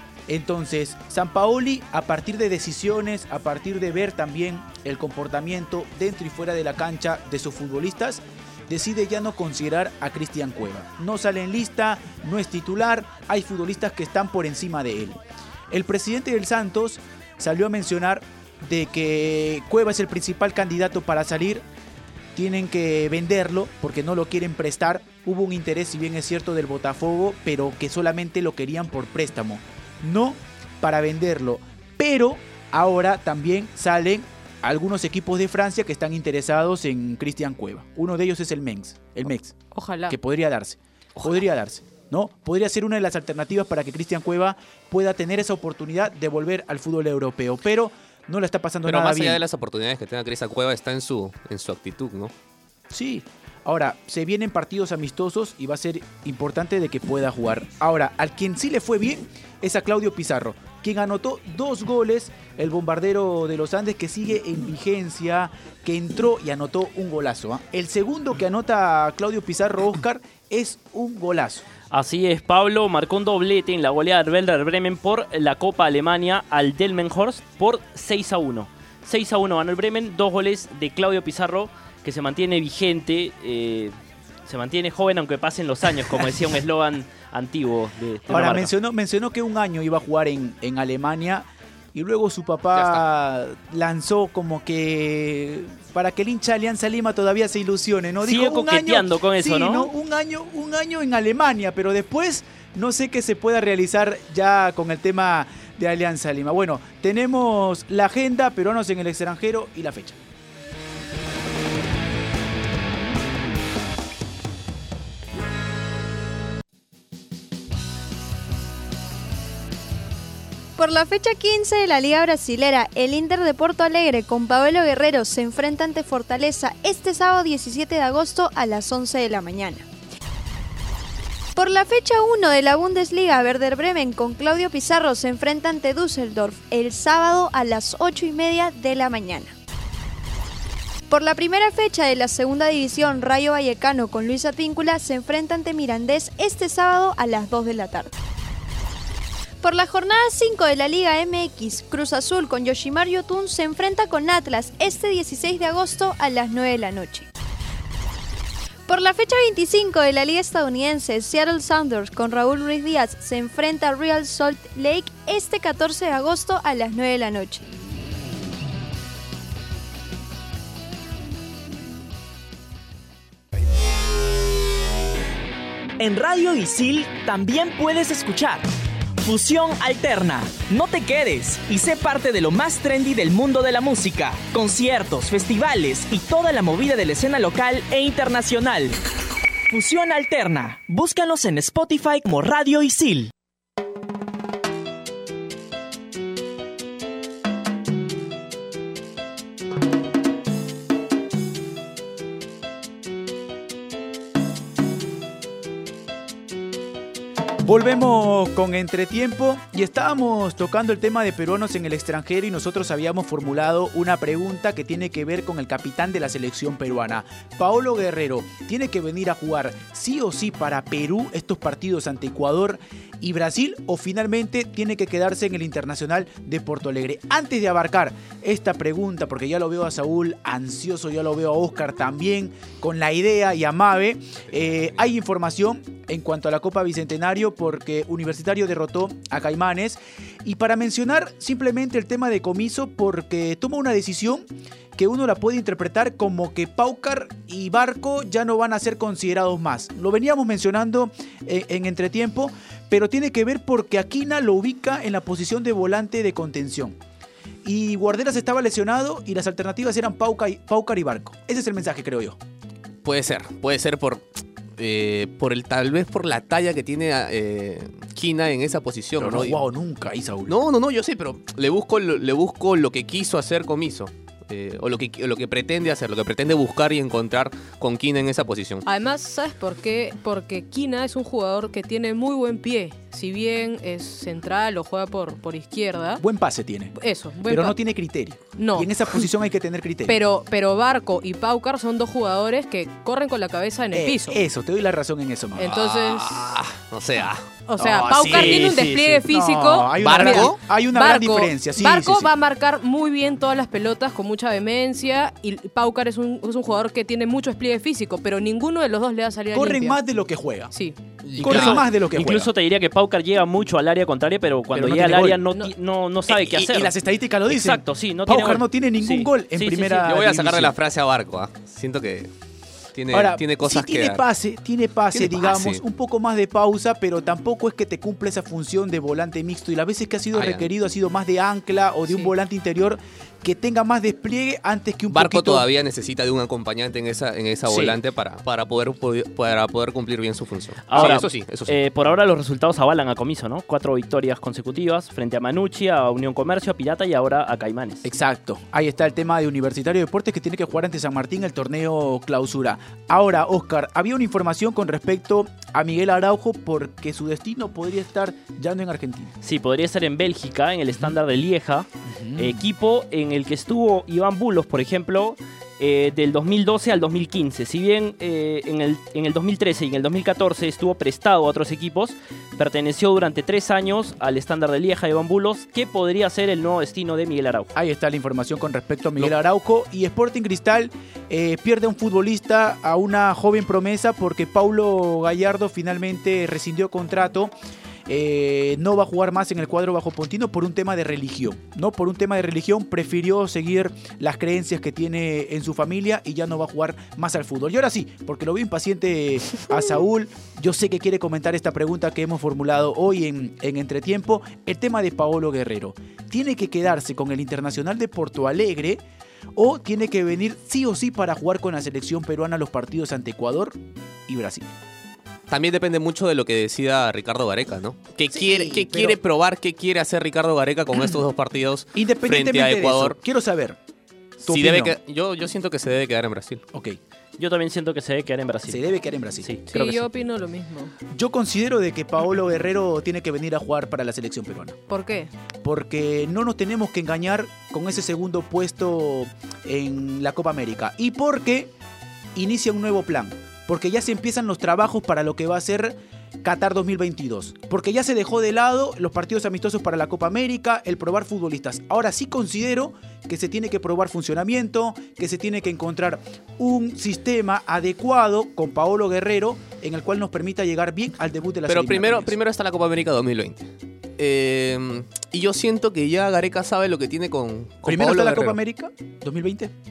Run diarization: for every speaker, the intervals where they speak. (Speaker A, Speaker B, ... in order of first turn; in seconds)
Speaker A: 0.3-15.2, 15.7-21.6, 22.3-39.6, 40.1-49.4, 52.9-71.6, 88.3-110.2, 207.6-257.0, 257.6-262.4, 269.2-270.6, 286.2-290.2, 293.9-295.7, 297.8-298.5, 299.3-302.3, 309.5-310.7, 311.4-312.5, 314.7-315.4, 316.3-320.8, 323.1-335.6, 337.6-338.0, 348.0-359.3, 362.1-362.6, 377.7-387.5, 388.1-409.0, 409.5-414.7, 418.3-419.2, 421.9-423.8, 424.4-425.0, 426.7-427.0, 428.7-429.5, 431.1-434.8, 435.6-441.7, 442.3-462.4, 467.8-469.7
Speaker B: 39.7-40.1, 278.9-286.2, 286.9-287.8, 288.6-289.2, 290.1-294.4, 295.6-296.4, 297.7-310.0, 429.7-430.9, 434.9-435.3
Speaker C: 48.8-52.3, 92.7-93.0, 263.0-269.6, 270.5-278.8, 295.6-298.5, 300.0-300.6, 311.2-311.8, 320.0-322.3, 322.9-324.2, 325.1-325.8, 330.3-330.7, 335.1-341.8, 415.5-423.2, 424.4-426.6, 461.7-468.6
Speaker D: 71.9-83.9, 84.5-88.7, 98.2-99.9, 298.3-299.2, 311.4-316.9, 317.5-320.1, 340.9-348.1, 359.4-361.9, 362.4-377.7, 427.4-428.8, 429.4-430.1
Speaker E: 120.8-129.8, 131.6-139.5, 141.1-148.1, 149.6-157.3, 158.9-167.6
Speaker F: 176.0-178.7, 179.2-189.0, 189.7-193.3